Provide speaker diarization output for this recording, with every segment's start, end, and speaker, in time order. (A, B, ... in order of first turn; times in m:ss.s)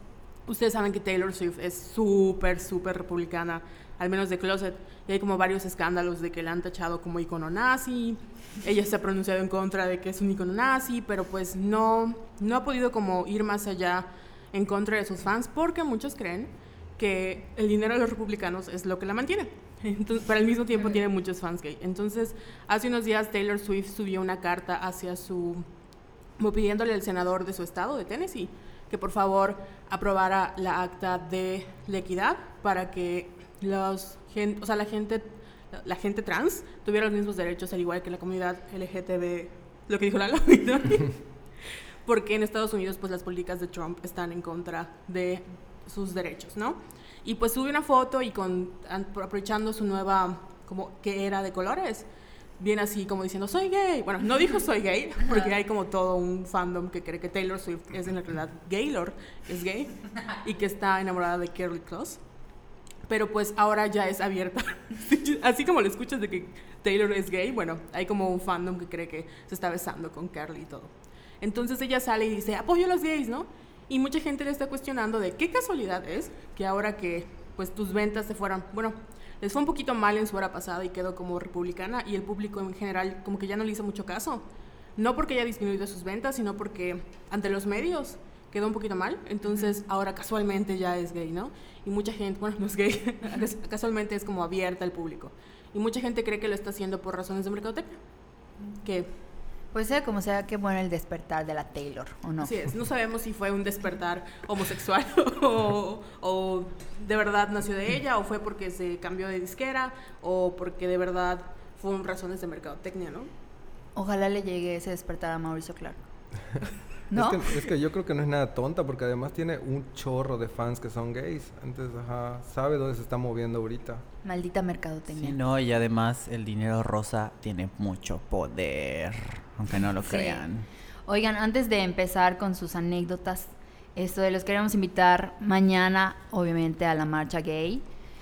0:00.5-0:25.6 A
0:26.4-0:41.2 A
0:42.0-0:52.1 A
0:52.6-1:02.2 A
1:03.1-1:24.4 A
1:25.0-1:38.0 A
1:38.8-1:39.1 A
1:39.7-1:42.5 B
1:42.4-1:53.3 A
1:54.0-1:56.0 B
1:57.1-1:57.6 B
1:57.1-2:04.0 C
2:04.2-2:05.4 B
2:05.1-2:10.7 D
2:10.0-2:10.4 B
2:11.1-2:17.8 B